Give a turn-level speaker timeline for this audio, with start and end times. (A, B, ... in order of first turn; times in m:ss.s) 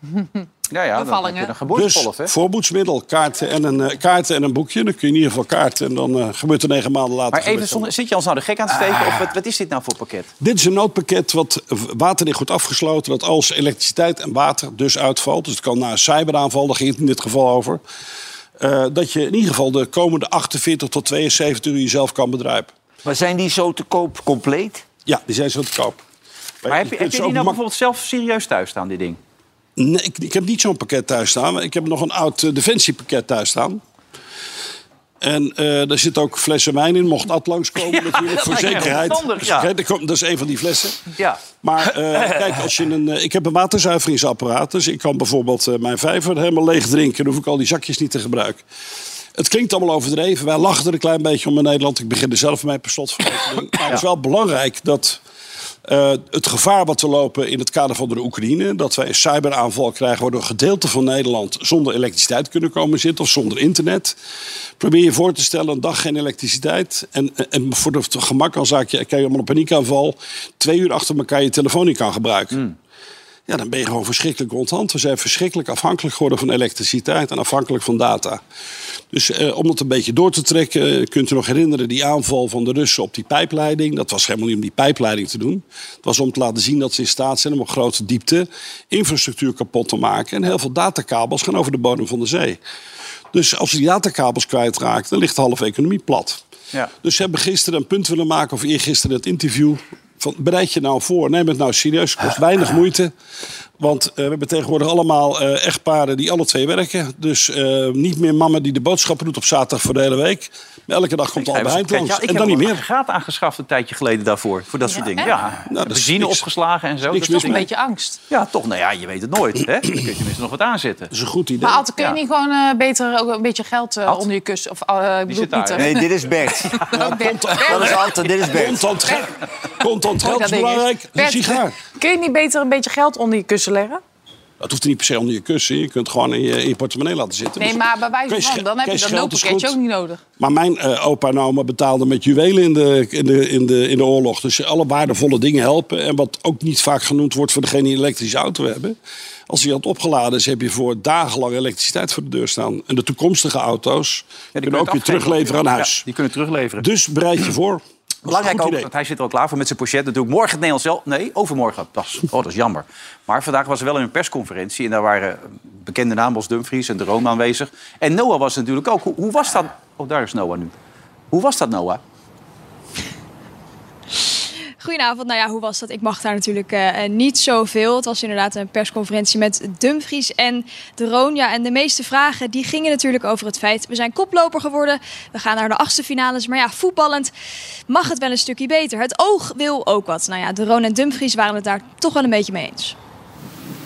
0:00.1-0:00.4 A
0:00.7-0:02.3 B
0:01.0-0:01.5 A
0:01.7-0:07.9 C
0:07.3-0:10.3 B
0:10.4-0:17.8 C
0:18.6-0:22.7 C
0:23.0-0:24.8 D
0:25.0-0:26.0 C
0:26.6-0:27.6 C
0:26.7-0:29.2 B
0:29.8-0:33.8 C
0:35.2-0:41.1 C
0:37.8-0:39.7 B
0:41.2-0:41.4 B
0:41.6-0:48.6 C
0:49.3-0:55.2 C
0:55.8-1:04.2 C
1:04.8-1:12.6 C
1:13.5-1:18.4 C
1:19.1-1:32.6 C
1:33.3-1:36.4 C
1:37.0-1:43.1 C
1:43.8-1:52.8 C
1:51.4-1:57.6 B
1:54.9-1:55.3 A
1:55.7-1:56.5 C
1:57.1-1:57.6 C
1:57.3-1:58.2 A
1:58.3-2:01.1 B
2:01.1-2:01.8 C
2:01.6-2:06.0 A
2:05.3-2:06.0 B
2:05.8-2:07.0 D
2:06.7-2:08.1 A
2:06.9-2:11.8 C
2:07.5-2:08.9 D
2:10.2-2:14.0 A
2:14.6-2:19.8 C
2:17.6-2:20.2 A
2:20.4-2:29.0 C
2:29.5-2:36.1 C
2:34.5-2:36.8 B
2:36.8-2:38.9 C
2:38.2-2:50.7 B
2:51.3-2:52.0 B
2:54.8-3:07.3 E
3:07.9-3:12.9 E